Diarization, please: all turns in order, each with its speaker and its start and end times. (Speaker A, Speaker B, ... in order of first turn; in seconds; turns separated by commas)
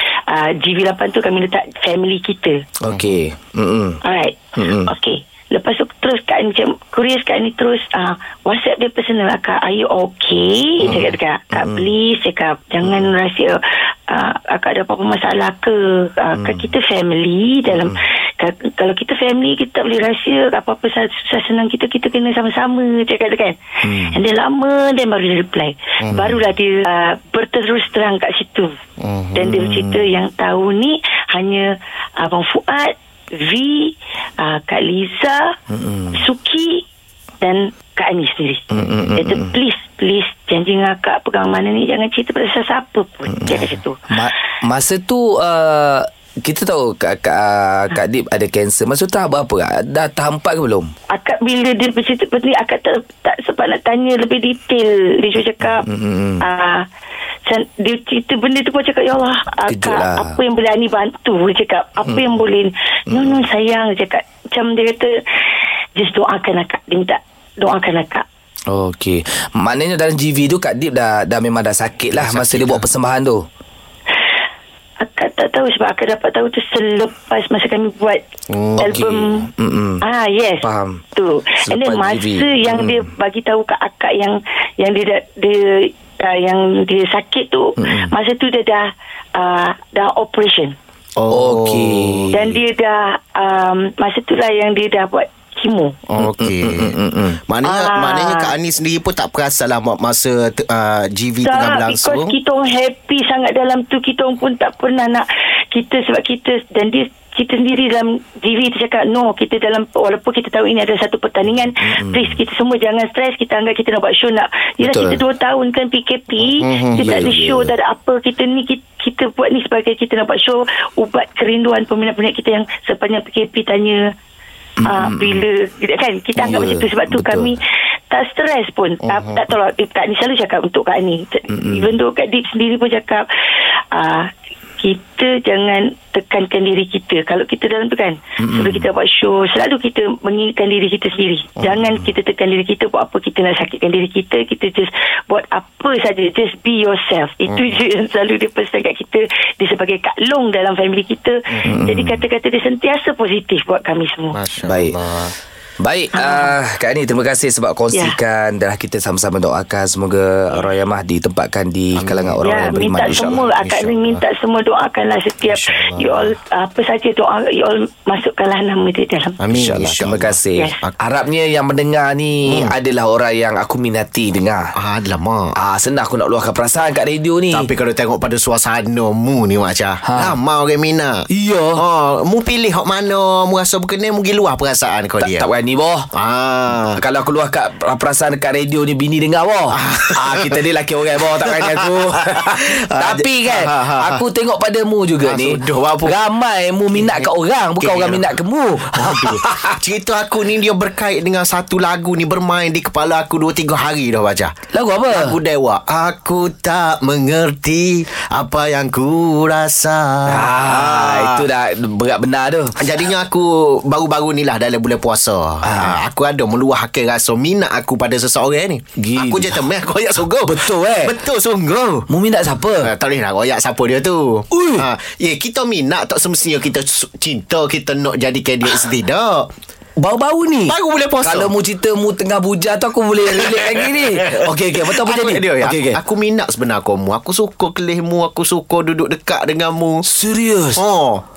Speaker A: 0.3-2.6, Speaker B: 2.8-4.0, Speaker A: 4.0-28.8, Speaker B: 4.6-4.9, Speaker B: 10.8-11.9, Speaker B: 12.8-13.1, Speaker B: 16.4-16.7, Speaker B: 23.8-24.1, Speaker C: 26.0-26.4, Speaker C: 29.0-29.4, Speaker A: 29.4-35.6, Speaker B: 35.7-36.2, Speaker A: 36.1-36.9, Speaker A: 37.4-44.0, Speaker B: 38.7-39.5, Speaker B: 43.3-50.9, Speaker A: 51.1-55.9, Speaker B: 55.8-56.4, Speaker A: 56.4-56.9, Speaker A: 57.5-65.2, Speaker B: 59.7-60.4, Speaker B: 63.1-63.4, Speaker A: 66.0-68.2, Speaker B: 68.7-73.5, Speaker C: 72.1-72.8, Speaker A: 75.0-78.3, Speaker C: 78.5-79.0, Speaker A: 78.8-79.5, Speaker B: 78.8-80.0, Speaker A: 80.0-90.8, Speaker B: 80.6-81.0, Speaker B: 81.6-83.0, Speaker B: 87.8-88.1, Speaker C: 91.2-92.3, Speaker B: 91.3-92.6, Speaker A: 92.3-96.0, Speaker C: 96.1-97.0, Speaker B: 96.2-97.4, Speaker C: 97.5-102.3, Speaker A: 97.6-98.5, Speaker A: 101.4-124.1, Speaker B: 111.8-112.4, Speaker B: 114.8-115.2, Speaker C: 116.5-117.2, Speaker B: 117.0-117.7, Speaker B: 124.8-125.4, Speaker A: 124.8-133.3, Speaker B: 126.4-127.5, Speaker C: 129.0-129.4, Speaker B: 131.5-131.9, Speaker A: 133.9-154.4, Speaker B: 138.4-138.9, Speaker C: 147.5-147.8, Speaker B: 151.7-152.2, Speaker C: 154.3-155.3, Speaker B: 154.7-155.0, Speaker B: 155.8-163.4, Speaker A: 156.2-156.6, Speaker C: 162.0-162.4, Speaker A: 162.4-169.4, Speaker C: 163.0-164.2, Speaker C: 165.5-166.3, Speaker C: 169.4-170.9, Speaker B: 169.5-174.7, Speaker C: 172.5-172.7, Speaker C: 174.8-175.5, Speaker B: 175.6-177.7, Speaker C: 177.5-181.3, Speaker B: 180.1-180.3, Speaker B: 181.3-181.8, Speaker C: 181.8-185.5, Speaker B: 185.2-186.1, Speaker C: 186.1-187.0, Speaker B: 187.0-199.8, Speaker C: 189.8-190.6, Speaker C: 191.4-194.2, Speaker C: 195.2-196.2, Speaker C: 196.9-198.3, Speaker C: 198.9-204.5, Speaker B: 204.7-205.3, Speaker C: 205.1-211.4, Speaker B: 210.3-212.8, Speaker C: 212.8-222.1, Speaker B: 215.6-216.0, Speaker B: 219.0-219.6, Speaker B: 220.5-221.1, Speaker B: 222.1-222.9, Speaker C: 222.8-229.5, Speaker B: 224.5-224.8, Speaker B: 230.0-236.0, Speaker C: 230.7-231.5, Speaker C: 233.3-240.0, Speaker B: 240.1-240.8, Speaker C: 240.8-241.2